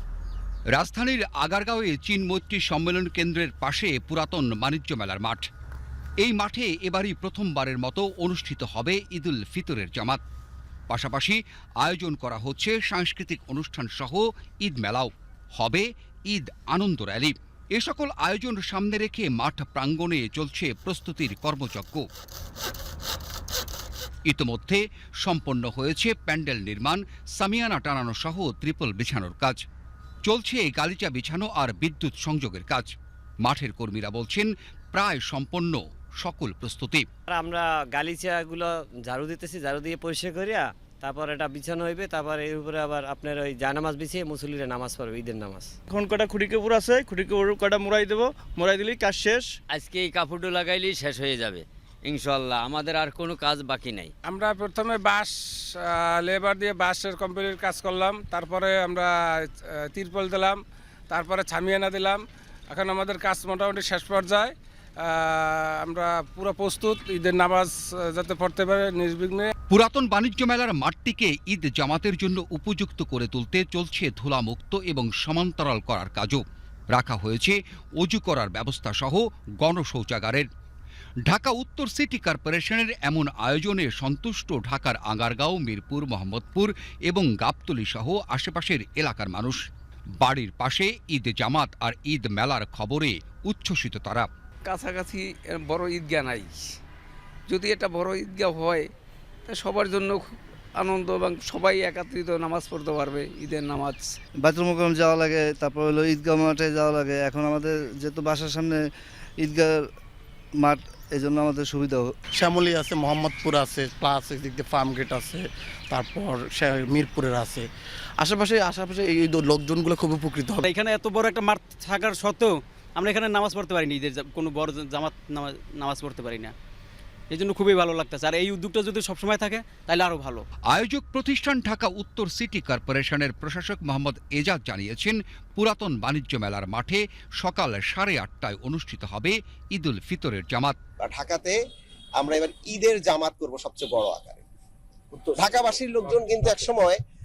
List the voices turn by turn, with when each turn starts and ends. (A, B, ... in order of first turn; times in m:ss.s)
0:00.7-0:05.4 A
0:06.2-0:10.2 A
0:10.9-0:22.0 A
0:24.3-0:29.6 A
0:30.2-0:37.0 A
0:37.3-0:45.7 B
0:45.9-0:49.5 C
0:49.7-0:54.1 D
0:54.3-0:59.1 E
0:59.7-1:00.6 E
1:01.1-1:04.5 E
1:05.0-1:09.5 E
1:09.7-1:16.4 A
1:16.9-1:20.5 A
1:21.3-1:29.6 A
1:30.2-1:34.3 A
1:34.6-1:36.6 F
1:37.5-1:38.9 F
1:39.4-1:44.1 F
1:44.4-1:48.8 G
1:49.4-1:49.8 G
1:50.6-1:52.1 G
1:52.4-1:57.6 H
1:58.2-2:00.6 H
2:00.6-2:06.5 I
2:07.3-2:10.4 I
2:10.7-2:20.7 A
2:21.0-2:21.6 J
2:22.2-2:24.4 J
2:25.3-2:27.0 J